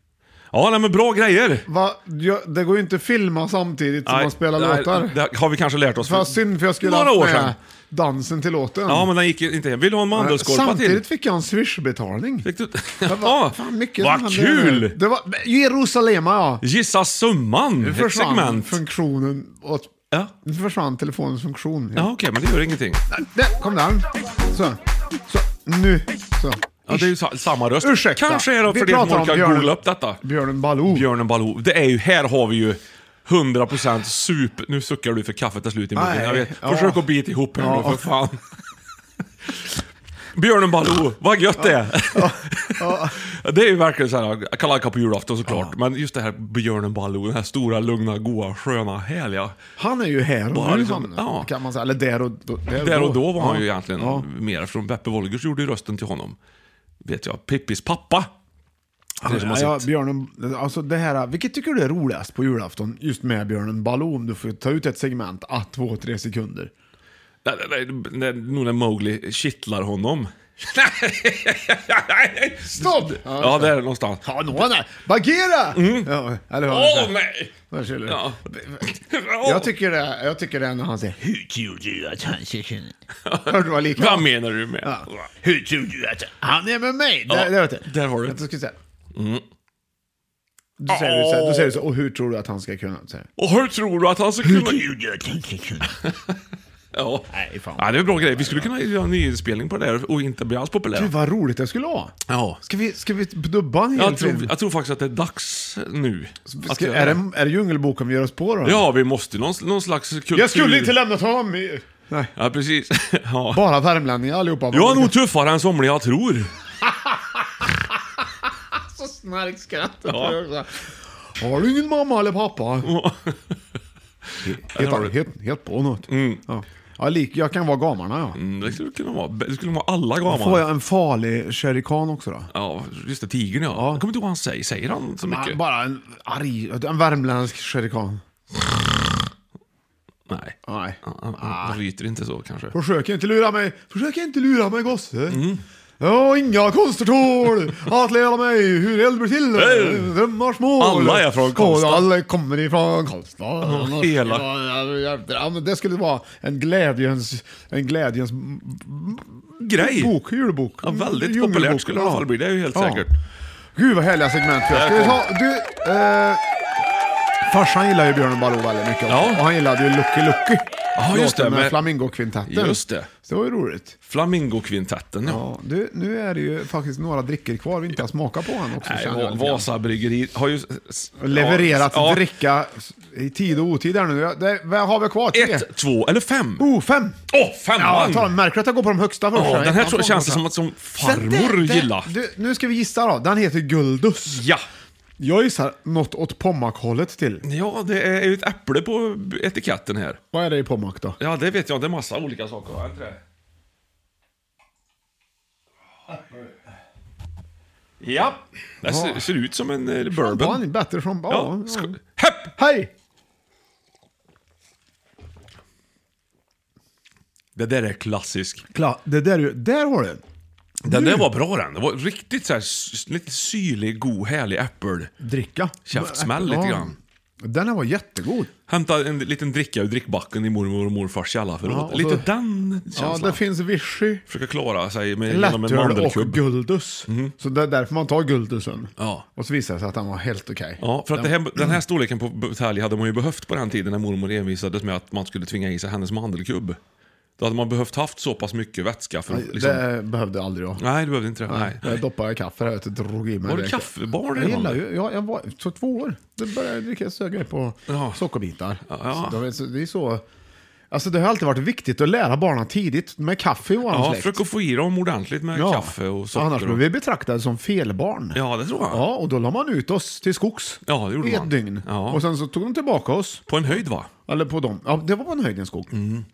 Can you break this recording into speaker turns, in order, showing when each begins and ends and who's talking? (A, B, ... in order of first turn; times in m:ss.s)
0:00.5-0:01.7 A
0:01.7-0:05.2 B
0:04.0-0:07.6 A
0:06.0-0:09.1 B
0:08.8-0:11.0 A
0:10.1-0:12.5 B
0:12.4-0:15.0 A
0:13.0-0:16.6 B
0:16.6-0:18.8 A
0:17.8-0:22.1 B
0:21.9-0:23.0 A
0:23.1-0:27.2 B
0:26.9-0:30.2 A
0:27.8-0:31.1 B
0:30.8-0:38.4 A
0:35.9-0:38.1 B
0:40.3-0:49.6 A
0:41.6-0:43.2 B
0:45.5-0:45.7 B
0:49.8-0:54.2 B
0:50.5-0:51.5 A
0:52.8-0:56.4 A
0:57.0-0:58.3 A
0:59.2-0:59.9 A
0:59.2-1:06.7 B
1:07.4-1:14.6 A
1:12.7-1:17.1 B
1:15.7-1:16.1 A
1:16.7-1:17.5 A
1:17.7-1:18.8 B
1:18.0-1:19.7 A
1:19.4-1:24.3 B
1:23.2-1:25.3 A
1:24.8-1:28.8 B
1:27.3-1:28.4 A
1:29.1-1:29.4 A
1:30.8-1:33.3 B
1:30.9-1:31.8 A
1:33.4-1:34.9 A
1:34.4-1:36.0 B
1:36.0-1:36.4 A
1:36.9-1:41.1 A
1:37.3-1:38.7 B
1:40.9-1:44.5 B
1:42.3-1:42.6 A
1:43.9-1:47.2 A
1:46.5-1:48.8 B
1:48.6-1:51.0 A
1:50.3-1:52.3 B
1:52.4-1:53.6 A
1:53.5-1:55.2 B
1:54.7-1:56.5 A
1:58.9-2:02.9 B
2:00.1-2:00.4 A
2:02.8-2:03.6 A
2:04.3-2:05.1 A
2:04.4-2:08.4 B
2:06.1-2:06.4 A
2:08.3-2:10.6 A
2:10.2-2:12.5 B
2:12.5-2:15.6 A
2:13.7-2:14.0 B
2:15.2-2:18.2 B
2:20.3-2:22.7 A
2:20.6-2:21.8 B
2:22.7-2:25.4 B
2:25.3-2:25.6 A
2:26.0-2:43.0 B
2:29.5-2:30.2 A
2:30.8-2:32.1 A
2:33.6-2:34.4 A
2:39.6-2:40.1 A
2:40.8-2:43.1 A
2:43.8-2:46.4 B
2:44.7-2:45.2 A
2:47.4-2:54.0 B
2:49.1-2:49.4 A
2:50.9-2:51.8 A
2:52.4-2:53.1 A
2:54.0-2:55.4 A
2:55.2-2:59.7 B
2:58.8-3:02.3 A
3:01.2-3:05.7 B
3:05.3-3:06.7 A
3:06.6-3:07.2 B
3:07.3-3:08.3 A
3:07.8-3:10.4 B
3:09.3-3:12.1 A
3:10.9-3:14.4 B
3:14.3-3:14.6 A
3:15.2-3:17.4 B
3:17.4-3:20.2 A
3:20.3-3:21.2 B
3:21.2-3:23.2 A
3:28.0-3:30.6 A
3:28.8-3:29.2 B
3:30.1-3:32.0 B
3:31.3-3:32.5 A
3:32.6-3:32.9 B
3:37.6-3:38.6 A
3:38.7-3:40.2 B
3:40.8-3:41.3 B
3:40.8-3:45.1 A
3:45.2-3:48.5 B
3:45.9-3:47.0 A
3:48.7-3:53.4 A
3:51.6-3:52.3 B
3:52.9-3:54.2 B
3:54.3-3:56.4 A
3:55.3-4:01.8 B
3:57.1-3:57.3 A
3:59.0-3:59.2 A
4:00.8-4:06.8 A
4:07.4-4:09.8 A
4:09.3-4:10.8 B
4:10.8-4:12.0 A
4:11.4-4:20.2 B
4:13.4-4:14.8 A
4:17.9-4:18.2 A
4:18.9-4:19.4 A
4:20.9-4:24.4 B
4:23.9-4:26.8 A
4:25.5-4:33.5 B
4:28.3-4:29.0 A
4:30.8-4:32.2 A
4:33.5-4:34.1 A
4:34.3-4:35.9 B
4:35.9-4:36.2 A